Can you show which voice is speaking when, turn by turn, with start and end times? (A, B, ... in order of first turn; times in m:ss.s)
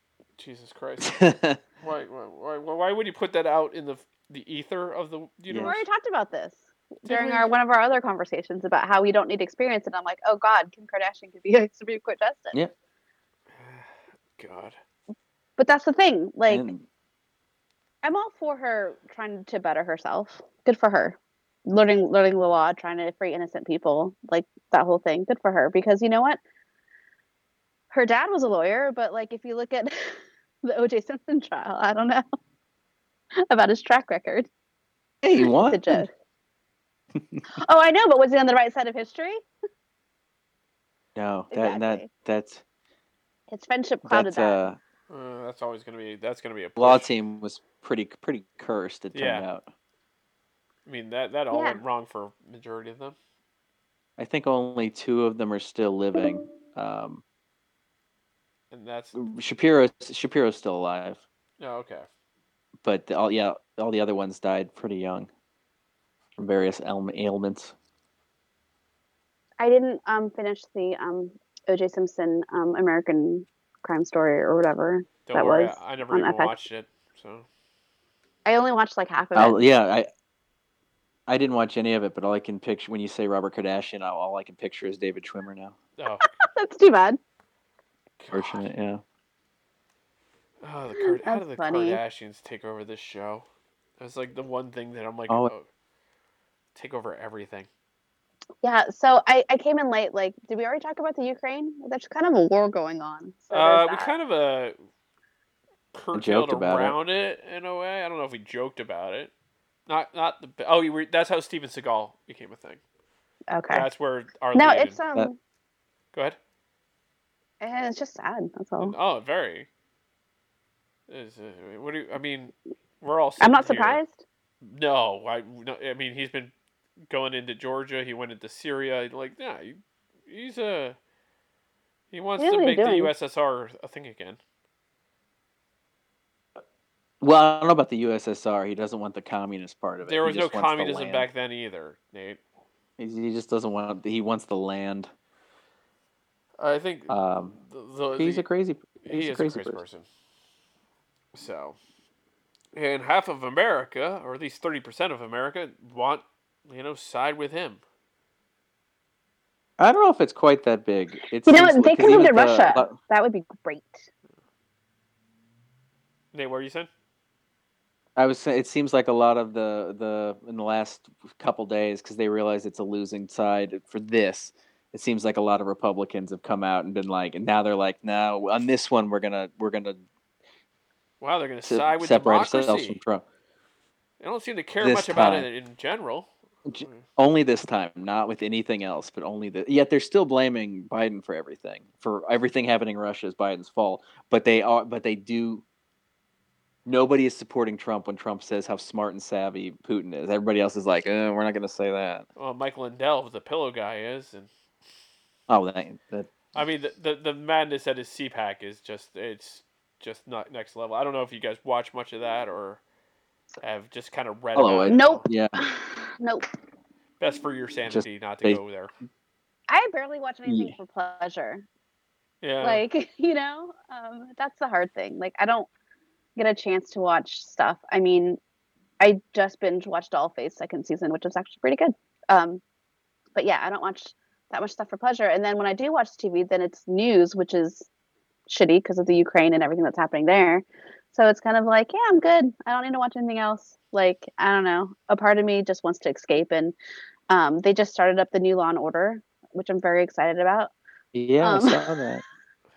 0:00.4-0:01.2 A
0:01.0-0:01.6 B
0:01.8-0:05.8 A
0:05.5-0:05.8 B
0:05.6-0:12.6 C
0:07.1-0:07.5 A
0:13.5-0:14.8 A
0:15.6-0:16.7 C
0:16.5-0:16.8 B
0:18.0-0:26.4 C
0:27.9-0:32.2 C
0:33.5-0:34.5 C
0:35.2-0:36.0 B
0:35.4-0:36.1 C
0:37.6-0:39.4 C
0:41.2-0:42.6 B
0:41.5-0:42.1 C
0:43.5-0:44.6 C
0:44.1-0:44.8 B
0:45.1-0:47.1 A
0:46.8-0:49.7 B
0:49.1-0:49.5 A
0:50.9-0:53.2 A
0:51.5-0:51.8 C
0:54.2-0:57.2 B
0:58.7-0:59.2 A
0:59.2-1:01.2 B
1:01.6-1:02.1 A
1:02.8-1:05.3 B
1:06.4-1:07.7 B
1:09.6-1:16.5 C
1:15.3-1:17.5 A
1:18.5-1:19.6 C
1:19.4-1:20.1 B
1:21.3-1:25.8 B
1:26.0-1:26.2 A
1:26.4-1:27.2 C
1:28.2-1:28.7 A
1:28.3-1:29.0 B
1:30.6-1:33.4 A
1:31.0-1:32.0 C
1:34.0-1:35.6 A
1:36.8-1:37.7 A
1:38.6-1:44.1 C
1:43.5-1:44.8 A
1:45.9-1:49.3 A
1:46.1-1:47.0 B
1:49.9-1:52.8 A
1:53.5-1:53.9 C
1:53.7-1:55.0 A
1:54.6-1:55.4 C
1:56.1-1:56.4 A
1:57.6-1:59.0 C
1:58.8-1:59.7 A
2:01.1-2:04.0 A
2:03.4-2:04.2 C
2:04.6-2:06.5 A
2:07.1-2:11.0 A
2:12.1-2:14.4 A
2:12.4-2:13.1 C
2:17.2-2:21.3 B
2:20.0-2:22.4 A
2:23.0-2:25.1 B
2:26.6-2:28.4 A
2:27.1-2:27.6 B
2:28.2-2:29.8 B
2:29.0-2:30.1 A
2:31.3-2:31.8 A
2:32.8-2:37.8 A
2:39.8-2:43.0 B
2:41.5-2:44.1 C
2:46.3-2:46.9 A
2:48.2-3:00.0 B
3:01.2-3:03.0 A
3:01.6-3:03.2 B
3:04.2-3:06.3 A
3:04.8-3:05.5 B
3:06.7-3:15.6 B
3:06.8-3:07.1 A
3:16.9-3:22.2 B
3:22.4-3:24.5 A
3:25.5-3:26.5 B
3:26.5-3:32.8 A
3:33.6-3:35.2 A
3:34.6-3:35.6 B
3:34.9-3:36.4 C
3:37.2-3:38.9 A
3:37.9-3:38.6 B
3:39.7-3:41.6 C
3:40.5-3:40.7 B
3:42.4-3:42.8 A
3:42.6-3:45.7 C
3:46.4-3:48.4 C
3:49.0-3:52.6 C
3:53.4-3:57.9 C
3:58.5-4:06.8 C
4:07.3-4:10.7 C
4:11.1-4:12.2 B
4:11.4-4:12.1 C